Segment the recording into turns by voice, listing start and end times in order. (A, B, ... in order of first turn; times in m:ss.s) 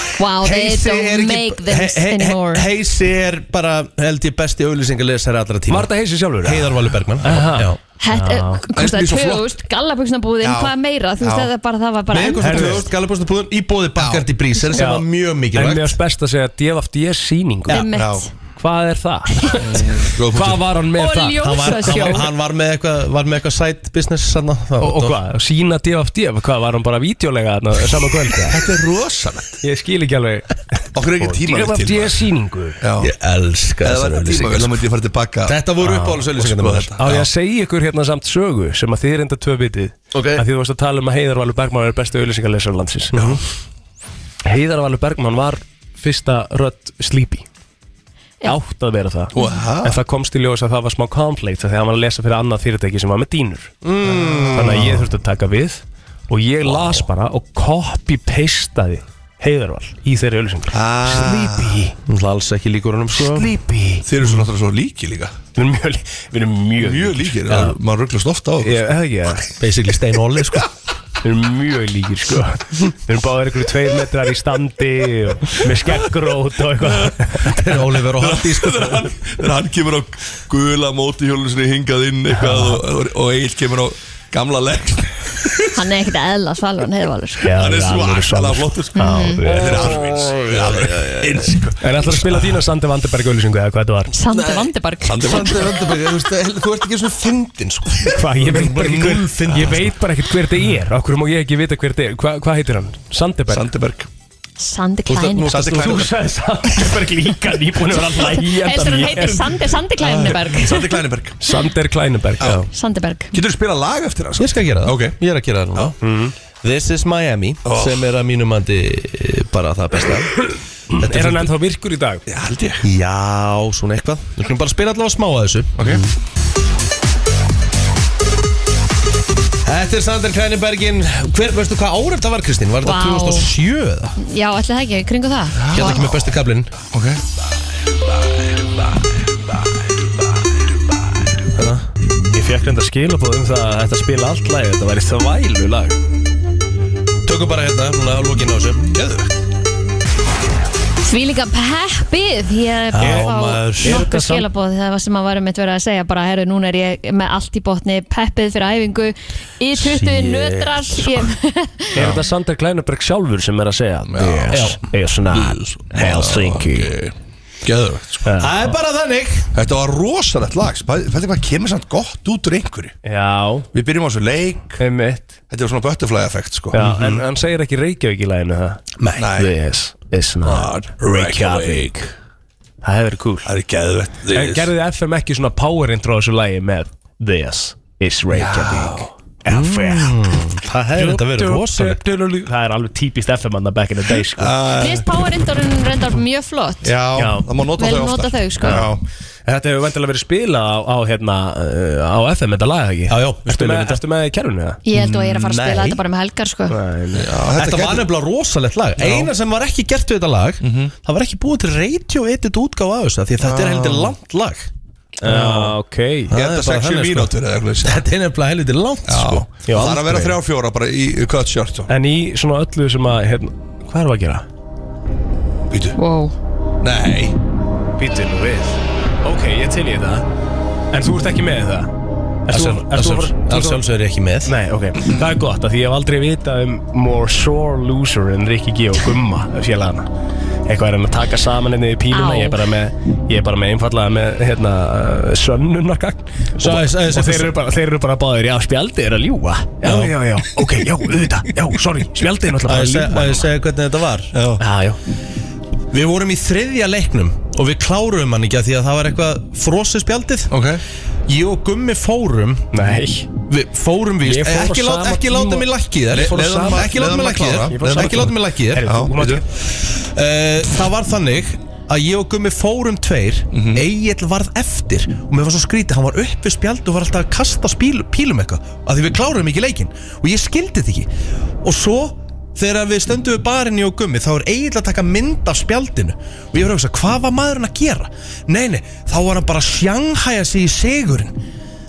0:00.2-0:02.7 A
0:00.4-0:05.9 B
0:05.7-0:08.7 C
0:06.4-0:07.8 B
0:08.0-0:12.9 A
0:08.7-0:09.6 D
0:10.4-0:11.5 D
0:12.1-0:16.0 B
0:12.4-0:12.8 C
0:14.0-0:14.3 D
0:14.8-0:17.9 C
0:17.7-0:18.3 A
0:17.9-0:18.3 D
0:18.5-0:22.3 C
0:19.6-0:20.6 D
0:21.0-0:22.2 A
0:21.4-0:25.2 B
0:24.8-0:28.6 C
0:28.5-0:29.6 D
0:29.6-0:32.8 C
0:30.9-0:32.2 D
0:32.8-0:33.1 D
0:33.0-0:34.7 B
0:33.8-0:35.7 D
0:35.5-0:36.9 B
0:35.8-0:43.4 C
0:36.4-0:37.3 D
0:40.1-0:40.4 B
0:43.1-0:43.4 B
0:44.4-0:47.4 C
0:48.4-0:49.3 C
0:49.3-0:50.0 D
0:49.8-0:53.7 C
0:53.8-0:55.0 B
0:54.1-0:55.0 D
0:54.5-1:01.9 C
0:56.6-0:57.0 D
1:00.7-1:01.8 D
1:02.0-1:03.5 B
1:03.2-1:04.3 C
1:04.0-1:05.4 D
1:05.6-1:07.7 C
1:06.8-1:08.9 D
1:08.6-1:09.5 C
1:09.6-1:10.7 B
1:11.2-1:17.6 C
1:16.8-1:17.1 D
1:17.4-1:19.1 B
1:18.0-1:25.6 D
1:25.7-1:27.5 A
1:27.4-1:30.0 C
1:27.5-1:32.5 D
1:29.0-1:29.4 A
1:29.5-1:31.4 B
1:31.8-1:34.1 C
1:34.1-1:35.7 A
1:35.0-1:36.1 D
1:35.2-1:39.9 B
1:38.0-1:43.7 C
1:43.5-1:44.1 D
1:44.6-1:45.7 A
1:45.1-1:46.1 B
1:45.4-1:46.1 D
1:45.7-1:49.6 C
1:48.2-1:51.0 A
1:50.0-1:51.4 D
1:51.4-1:52.7 C
1:52.4-1:52.6 D
1:52.7-1:53.3 A
1:53.3-1:55.2 D
1:54.4-1:55.9 B
1:56.0-1:56.3 C
1:56.6-2:00.3 B
1:57.6-1:58.1 D
2:01.0-2:02.2 C
2:01.0-2:01.5 B
2:02.3-2:02.8 D
2:02.8-2:06.1 B
2:09.6-2:14.2 B
2:12.8-2:13.5 A
2:14.2-2:16.0 A
2:15.5-2:16.3 D
2:15.7-2:16.7 B
2:16.9-2:17.2 D
2:21.5-2:21.9 B
2:22.3-2:26.0 C
2:27.2-2:28.9 B
2:28.9-2:29.3 D
2:31.0-2:42.0 A
2:32.9-2:34.1 B
2:33.0-2:34.5 C
2:39.8-2:41.3 B
2:41.9-2:47.0 C
2:44.1-2:44.7 D
2:44.5-2:44.8 B
2:45.3-2:48.2 D
2:48.2-2:48.6 C
2:48.4-2:49.5 B
2:49.5-2:52.9 D
2:53.0-2:53.7 C
2:53.7-2:54.8 D
2:54.8-2:55.4 C
2:55.5-2:56.8 D
2:56.7-2:58.8 C
2:56.8-2:57.2 B
2:59.0-2:59.3 B
2:59.2-2:59.5 D
2:59.3-3:02.1 C
3:00.4-3:02.1 D
3:02.8-3:03.5 C
3:03.4-3:04.7 D
3:04.3-3:10.4 C
3:08.3-3:09.1 D
3:09.5-3:12.0 B
3:11.0-3:14.5 C
3:14.3-3:15.1 D
3:14.8-3:16.9 A
3:16.8-3:19.0 D
3:17.2-3:17.4 C
3:17.8-3:18.8 A
3:18.6-3:18.9 C
3:19.4-3:24.8 C
3:23.1-3:24.0 B
3:24.8-3:26.8 A
3:24.9-3:26.0 B
3:26.7-3:27.4 C
3:27.1-3:28.1 D
3:27.6-3:34.7 B
3:30.6-3:30.9 D
3:33.4-3:34.1 D
3:35.2-3:36.4 C
3:35.2-3:35.8 B
3:36.3-3:40.1 B
3:36.3-3:38.0 D
3:39.0-3:41.9 D
3:39.6-3:40.3 C
3:41.9-3:44.4 C
3:45.7-3:46.0 D
3:46.0-3:46.3 A
3:46.8-3:47.3 D
3:48.0-3:50.2 C
3:50.9-3:51.9 C
3:52.5-3:53.8 C
3:52.5-3:54.5 B
3:54.4-4:00.1 C
4:00.7-4:13.5 C
4:02.1-4:02.6 A
4:06.6-4:07.6 B
4:09.8-4:10.1 B
4:12.6-4:14.3 B
4:14.3-4:14.6 D
4:14.6-4:15.0 C
4:15.9-4:20.5 B
4:20.5-4:20.8 D
4:21.3-4:22.8 B
4:22.7-4:23.3 C
4:23.5-4:28.9 B
4:24.2-4:29.4 C
4:26.1-4:29.4 D
4:29.7-4:41.1 B
4:33.5-4:33.8 D
4:41.6-4:51.3 B